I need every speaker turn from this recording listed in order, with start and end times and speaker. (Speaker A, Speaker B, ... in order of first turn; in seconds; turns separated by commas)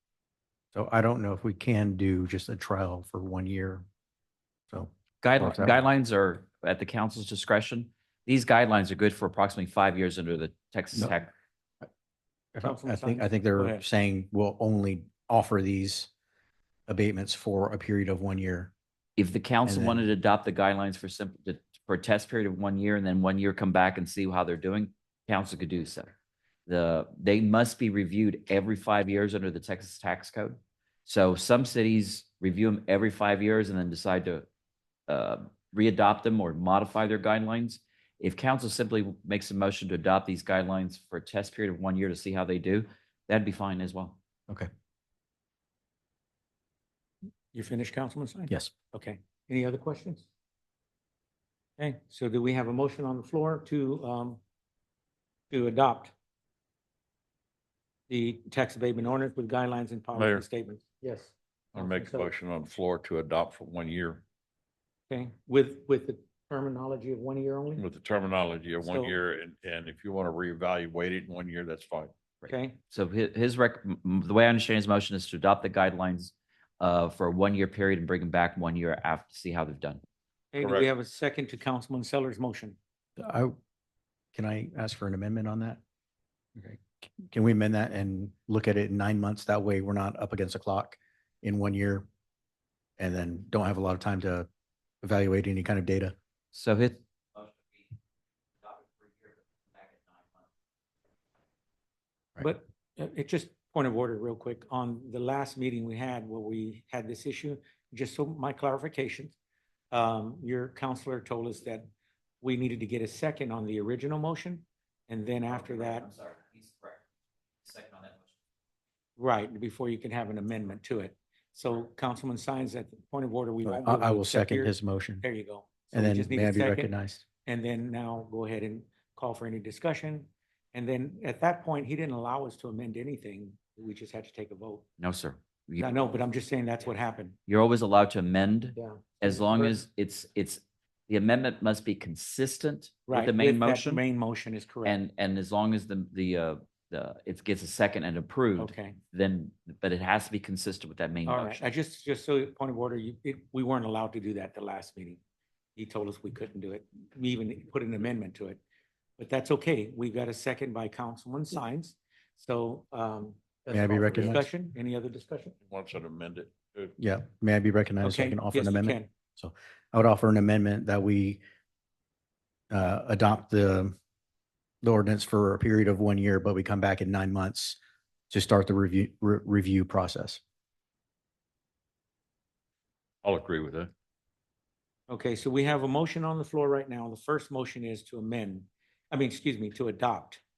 Speaker A: 0.7-3.8, Speaker A: 4.7-5.8, Speaker B: 5.2-11.3, Speaker A: 12.5-16.1, Speaker C: 12.6-13.8, Speaker A: 16.9-18.7, Speaker B: 19.2-26.1, Speaker A: 19.6-20.0, Speaker B: 26.7-34.5, Speaker B: 35.1-44.2, Speaker C: 47.5-50.3, Speaker C: 51.8-54.4, Speaker C: 55.5-56.1, Speaker C: 58.1-62.3, Speaker D: 60.1-60.5, Speaker D: 61.8-64.2, Speaker C: 65.1-67.8, Speaker D: 67.8-72.1, Speaker C: 68.8-69.1, Speaker B: 72.4-80.0, Speaker C: 72.5-72.8, Speaker C: 80.5-82.8, Speaker D: 80.6-80.9, Speaker A: 83.2-83.5, Speaker A: 84.3-85.8, Speaker A: 87.3-92.1, Speaker A: 93.0-94.5, Speaker A: 95.0-96.1, Speaker B: 96.5-97.8, Speaker B: 98.6-100.5, Speaker C: 102.4-109.3, Speaker C: 109.9-111.9, Speaker C: 112.4-116.1, Speaker B: 115.5-117.0, Speaker B: 117.6-118.2, Speaker C: 119.2-126.9, Speaker A: 123.6-125.2, Speaker A: 125.9-127.2, Speaker C: 127.4-134.8, Speaker B: 135.0-136.0, Speaker C: 135.8-137.4, Speaker B: 137.5-144.0, Speaker C: 138.8-139.8, Speaker C: 143.1-145.0, Speaker B: 144.8-151.6, Speaker C: 148.6-149.0, Speaker C: 151.2-155.2, Speaker C: 155.8-158.6, Speaker C: 159.2-165.5, Speaker A: 163.7-164.4, Speaker D: 165.6-166.9, Speaker A: 167.0-171.4, Speaker C: 168.0-169.1, Speaker A: 172.7-173.9, Speaker A: 174.8-177.8, Speaker A: 178.3-180.4, Speaker D: 183.2-183.9, Speaker C: 185.1-190.4